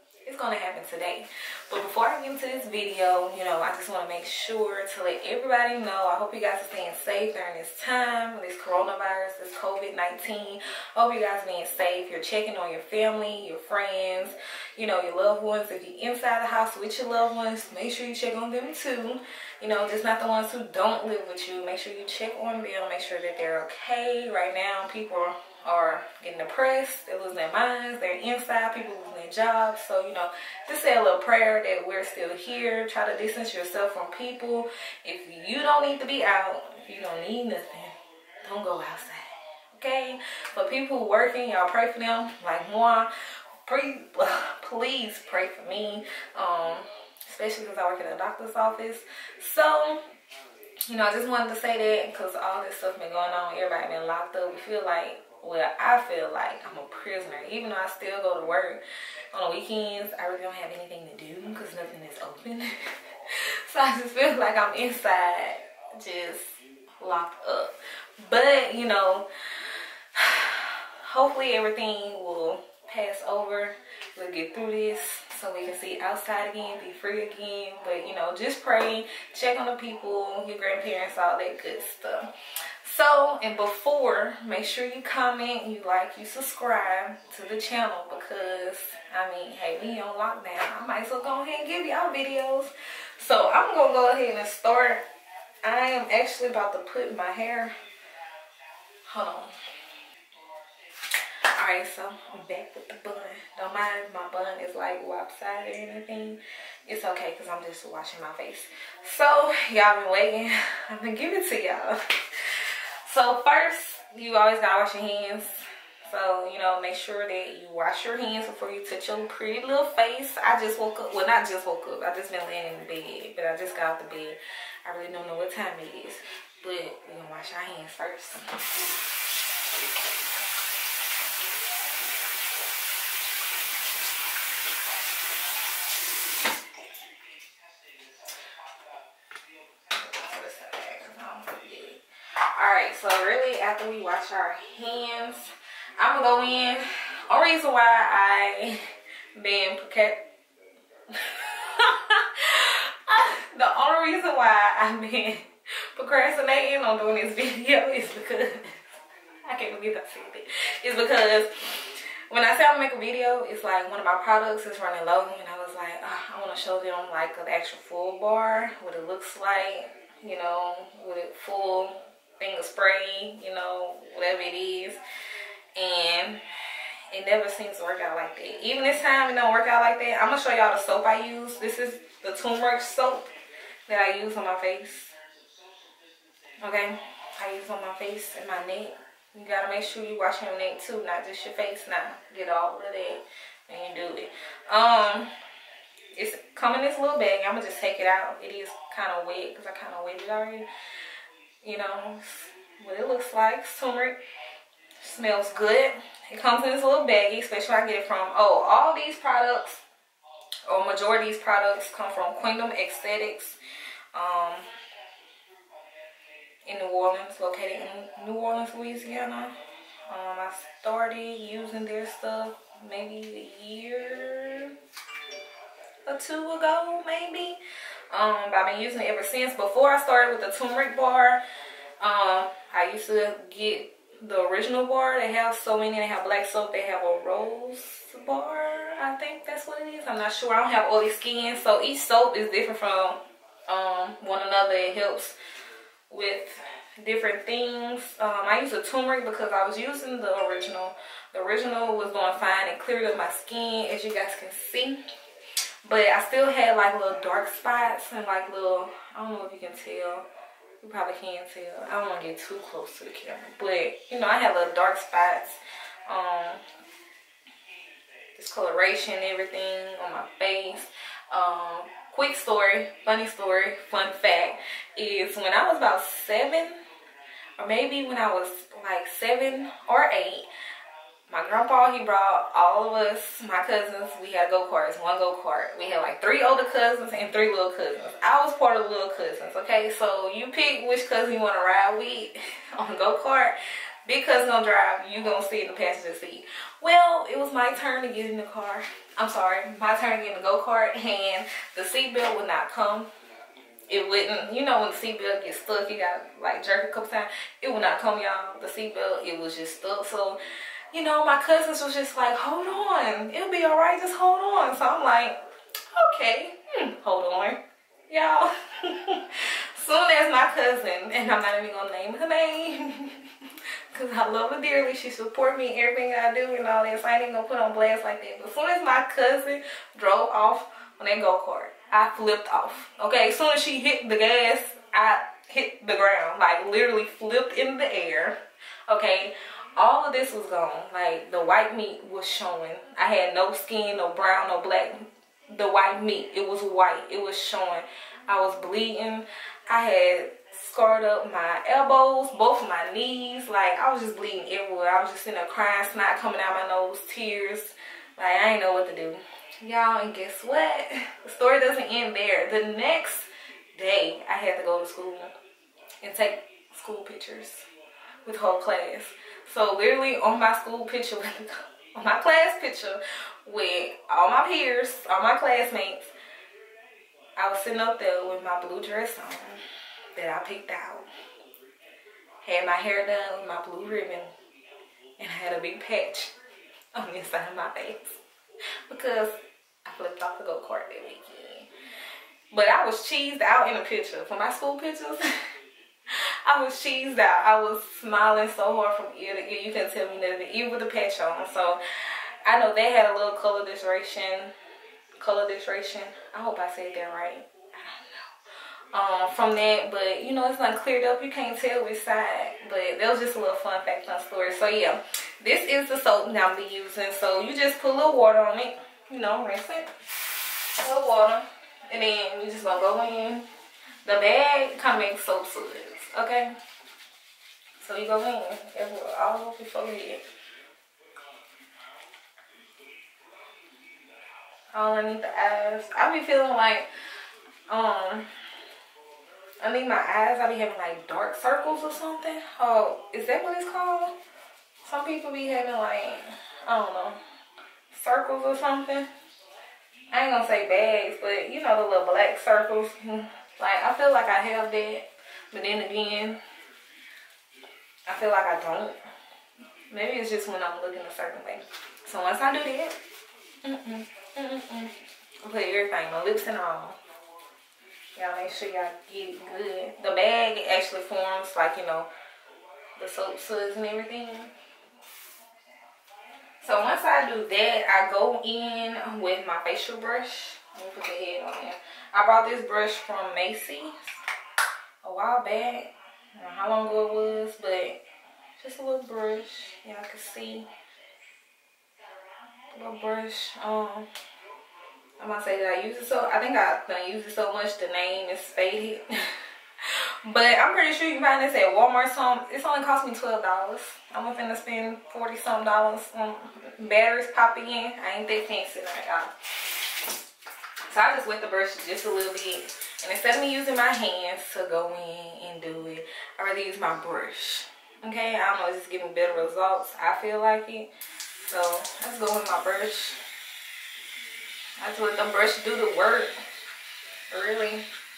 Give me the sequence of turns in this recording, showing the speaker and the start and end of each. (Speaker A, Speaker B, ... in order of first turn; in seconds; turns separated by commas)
Speaker A: 0.2-43.1, Speaker A: 43.6-50.0, Speaker A: 50.9-95.0, Speaker A: 95.6-97.7, Speaker A: 99.0-99.5, Speaker A: 101.0-128.6, Speaker A: 139.9-150.3, Speaker A: 151.1-175.0, Speaker A: 175.8-176.4, Speaker A: 177.1-183.3, Speaker A: 183.9-185.1, Speaker A: 186.6-195.3, Speaker A: 196.1-200.7, Speaker A: 201.6-204.2, Speaker A: 205.0-209.8, Speaker A: 210.7-213.6, Speaker A: 214.1-214.7, Speaker A: 216.6-219.5, Speaker A: 220.1-224.8, Speaker A: 226.0-231.4, Speaker A: 232.0-245.4, Speaker A: 246.1-255.0, Speaker A: 255.8-260.3, Speaker A: 260.8-266.6, Speaker A: 268.3-276.8, Speaker A: 277.6-280.5, Speaker A: 281.3-303.1, Speaker A: 303.9-315.4, Speaker A: 315.9-365.3, Speaker A: 366.0-367.7, Speaker A: 368.2-376.1, Speaker A: 377.4-381.1, Speaker A: 382.4-384.4, Speaker A: 385.2-386.3, Speaker A: 386.9-388.2, Speaker A: 388.8-391.7, Speaker A: 392.5-395.3, Speaker A: 396.1-404.5, Speaker A: 405.2-408.3, Speaker A: 408.9-423.5, Speaker A: 424.0-426.6, Speaker A: 427.8-430.2, Speaker A: 434.7-436.9, Speaker A: 437.7-438.3, Speaker A: 439.6-444.1, Speaker A: 444.8-447.2, Speaker A: 447.9-449.1, Speaker A: 450.1-456.4, Speaker A: 458.1-459.0, Speaker A: 459.9-463.0, Speaker A: 463.6-467.0, Speaker A: 468.1-472.1, Speaker A: 473.0-474.5, Speaker A: 476.6-484.2, Speaker A: 485.0-488.0, Speaker A: 488.6-490.7, Speaker A: 492.7-494.1, Speaker A: 495.2-509.9, Speaker A: 510.9-523.2, Speaker A: 524.8-526.4, Speaker A: 527.3-527.9